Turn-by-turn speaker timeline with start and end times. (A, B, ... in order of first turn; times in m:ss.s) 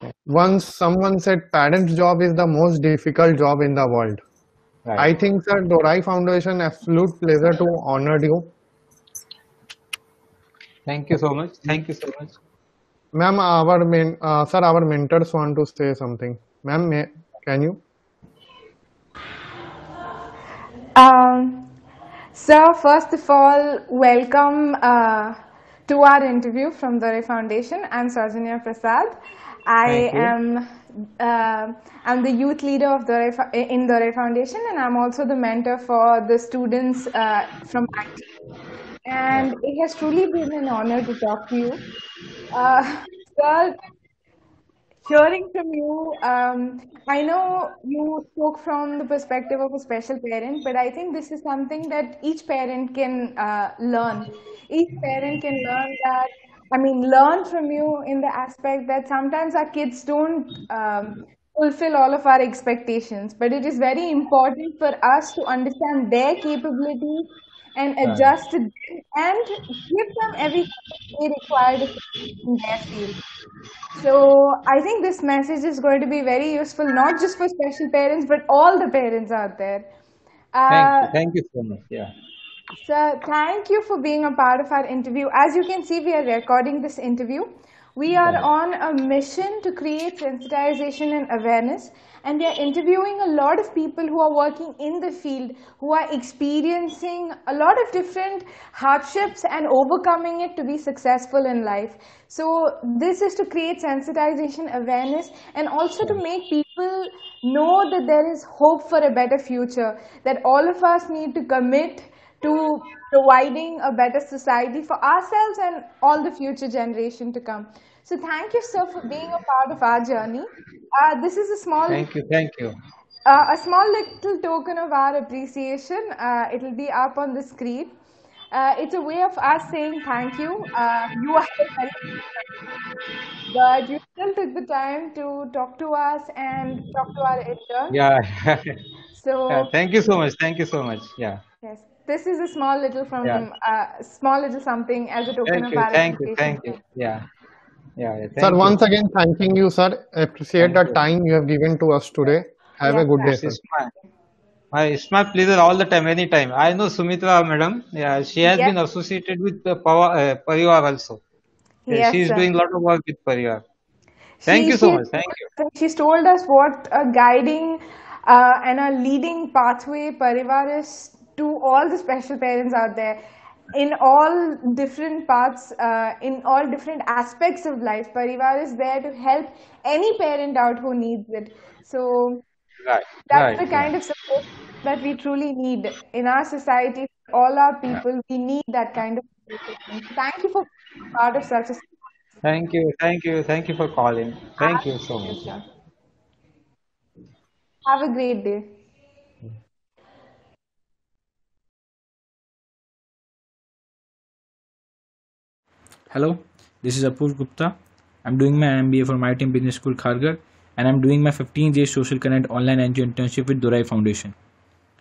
0:00.3-0:04.2 A
0:04.8-0:05.1 B
0:05.0-0:08.5 A
0:10.9-0:12.3 B
0:13.1-0:17.8 A
0:20.9-0:21.6 C
0:22.3-0:25.4 C
0:25.9-0:30.6 C
0:29.8-0:30.3 B
0:31.2-0:38.2 C
0:39.0-0:41.8 C
0:42.5-0:43.7 C
0:45.0-1:13.1 C
1:08.0-1:08.4 B
1:14.0-1:19.9 C
1:20.5-1:21.1 C
1:20.7-1:22.1 B
1:22.8-2:02.1 C
1:28.2-1:28.5 B
2:01.9-2:02.7 B
2:03.2-2:07.9 C
2:08.5-2:12.4 C
2:13.5-2:18.0 C
2:17.9-2:18.7 B
2:19.1-2:19.7 C
2:19.5-2:21.4 B
2:21.6-2:26.8 C
2:25.5-2:27.2 B
2:28.0-2:28.8 B
2:28.4-2:33.6 A
2:30.6-2:31.0 B
2:32.8-2:33.3 C
2:33.2-2:33.9 B
2:34.7-2:41.2 B
2:38.4-2:38.7 C
2:41.9-2:42.5 C
2:41.9-2:43.6 B
2:44.4-2:53.2 C
2:44.5-2:45.5 B
2:53.7-3:02.4 C
3:02.8-3:03.9 B
3:03.3-3:11.8 C
3:12.4-3:15.5 B
3:14.6-3:15.6 C
3:17.8-3:18.6 C
3:26.1-3:34.3 D